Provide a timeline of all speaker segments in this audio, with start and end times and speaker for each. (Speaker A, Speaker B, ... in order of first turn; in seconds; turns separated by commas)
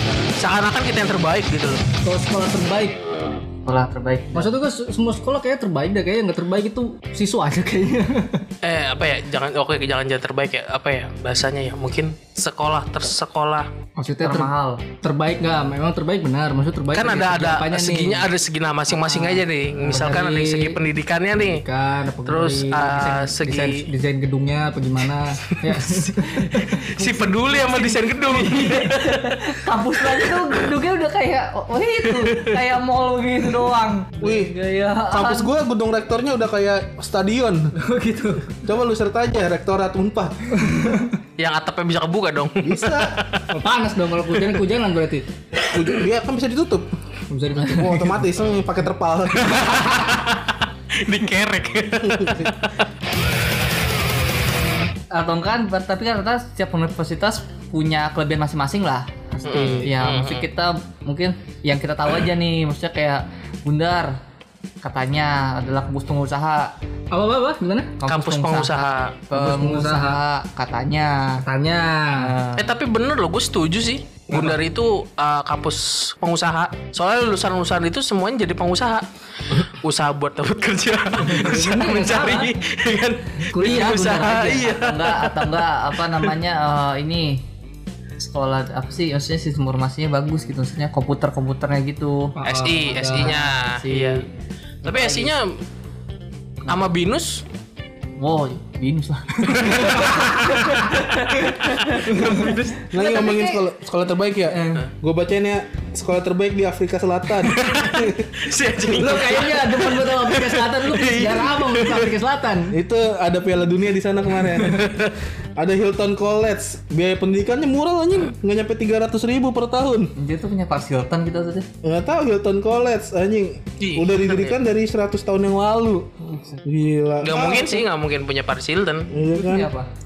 Speaker A: 0.4-1.8, Speaker B: 2.0-3.0, Speaker C: 3.6-4.5, Speaker B: 4.3-8.5, Speaker A: 8.6-13.7, Speaker B: 14.0-18.3, Speaker C: 14.2-14.8, Speaker A: 16.9-21.6, Speaker C: 18.9-19.4, Speaker B: 19.8-20.8, Speaker B: 21.4-27.3, Speaker A: 22.2-23.9, Speaker A: 25.6-30.6, Speaker C: 27.6-35.5, Speaker A: 32.1-32.5, Speaker D: 34.2-34.5, Speaker D: 35.1-37.7, Speaker C: 37.8-38.5, Speaker D: 38.6-40.5, Speaker B: 40.6-41.1, Speaker A: 41.4-43.4, Speaker D: 42.6-43.1, Speaker B: 43.5-45.3, Speaker D: 45.6-46.9, Speaker B: 47.3-48.2, Speaker D: 47.7-49.8, Speaker A: 49.4-52.8, Speaker D: 52.1-52.5, Speaker C: 55.1-64.2, Speaker B: 59.4-59.9, Speaker A: 59.4-60.5, Speaker C: 64.8-66.7, Speaker B: 67.1-68.0, Speaker C: 68.0-71.4, Speaker A: 68.1-69.3, Speaker B: 69.3-70.2, Speaker B: 71.4-72.3, Speaker C: 72.2-72.7, Speaker A: 72.6-86.3, Speaker B: 81.2-82.5, Speaker C: 83.5-87.4, Speaker B: 83.6-84.0, Speaker C: 88.2-94.2, Speaker B: 92.3-93.4, Speaker A: 92.4-94.2, Speaker C: 94.8-95.3, Speaker A: 94.8-95.5, Speaker A: 96.7-97.4, Speaker C: 98.2-103.6, Speaker A: 99.5-101.3, Speaker A: 101.9-102.9, Speaker B: 102.1-102.5, Speaker D: 102.9-108.3, Speaker C: 104.5-104.8, Speaker A: 107.4-112.1, Speaker B: 108.9-112.8, Speaker D: 112.7-114.9, Speaker A: 114.4-115.1, Speaker D: 115.6-120.1, Speaker C: 120.2-121.7, Speaker D: 121.8-127.8, Speaker A: 123.8-124.6, Speaker A: 127.2-129.1, Speaker D: 129.1-129.7, Speaker C: 129.3-129.9